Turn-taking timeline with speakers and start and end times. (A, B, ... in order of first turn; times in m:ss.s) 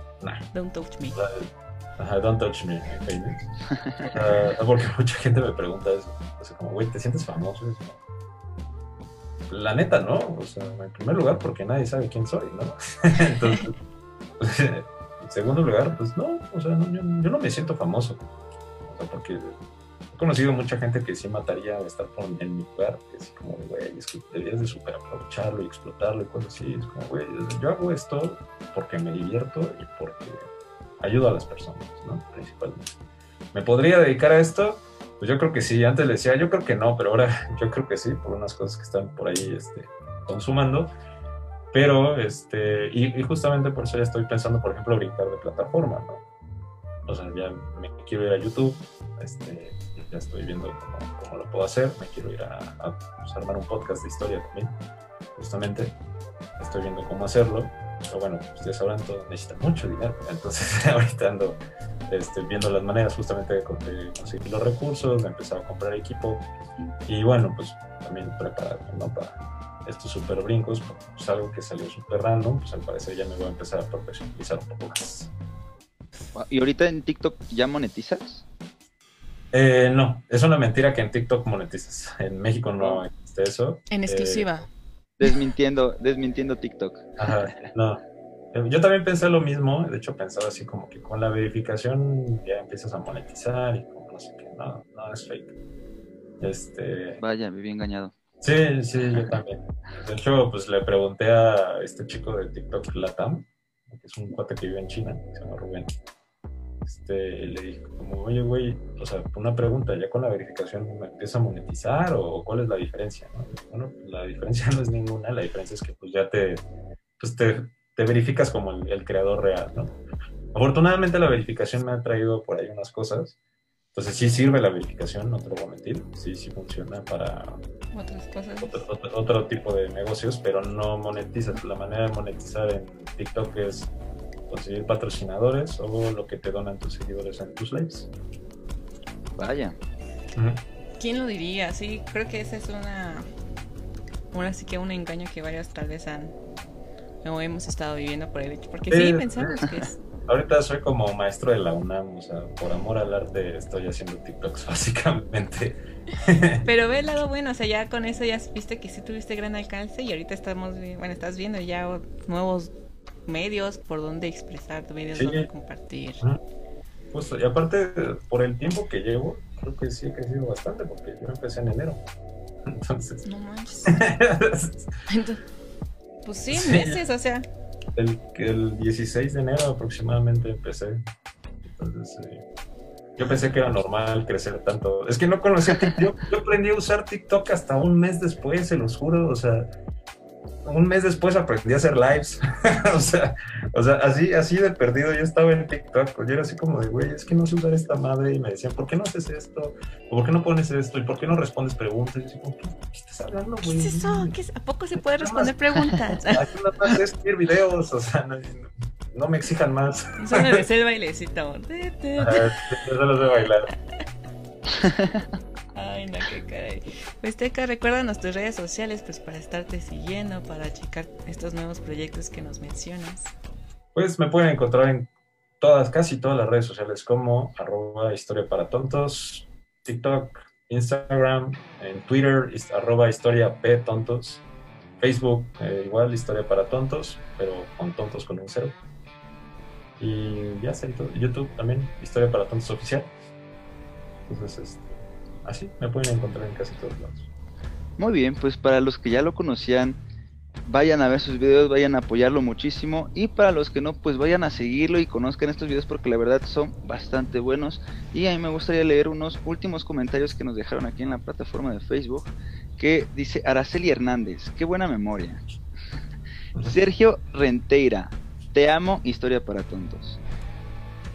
0:00.2-0:00.5 A
0:00.5-0:01.2 B
0:01.1-0:03.4 A
0:04.1-0:08.0 A
0:09.5-0:13.7 A
0:14.4-0:18.3 A
0:18.8-0:19.6 A
0:20.1-0:30.4 A
0:31.0-0:33.0 A
0:33.5-0:40.9 A
0:41.7-0:46.2 A
0:47.1-0:54.8 A
0:55.4-0:56.0 A
0:56.6-1:06.5 A
1:07.1-1:15.3 A
1:16.3-1:18.4 C
1:19.5-1:24.6 A
1:23.9-1:24.7 B
1:25.2-1:27.7 C
1:27.2-1:28.0 A
1:28.5-1:35.5 A
1:36.4-1:37.2 A
1:37.2-1:38.1 C
1:38.4-1:45.9 A
1:46.8-1:56.6 A
1:57.2-2:00.0 A
2:00.5-2:03.4 A
2:03.9-2:07.6 A
2:07.9-2:08.8 B
2:08.6-2:13.9 A
2:14.5-2:18.1 A
2:19.4-2:19.8 C
2:20.4-2:20.6 A
2:21.0-2:23.3 B
2:24.3-2:26.3 B
2:27.2-2:30.0 B
2:28.9-2:29.6 A
2:30.2-2:36.7 A
2:36.6-2:42.7 B
2:43.3-2:46.2 B
2:45.1-2:45.5 A
2:47.1-2:52.0 A
2:52.7-2:53.2 A
2:53.2-2:54.0 B
2:53.9-2:54.9 A
2:55.1-2:55.4 B
2:56.2-2:57.5 B
2:56.5-2:57.0 A
2:58.0-3:01.0 A
3:01.6-3:02.4 A
3:03.2-3:09.7 A
3:10.6-3:24.4 A
3:23.6-3:26.4 B
3:25.0-3:25.6 A
3:26.3-3:30.6 A
3:30.2-3:32.6 B
3:32.2-3:33.7 A
3:34.8-3:35.2 C
3:35.8-3:43.3 B
3:43.9-3:54.4 A
3:55.0-3:58.8 A
4:00.0-4:03.2 A
4:04.3-4:07.3 A
4:08.0-4:10.0 C
4:10.7-4:25.4 C
4:26.6-4:30.2 C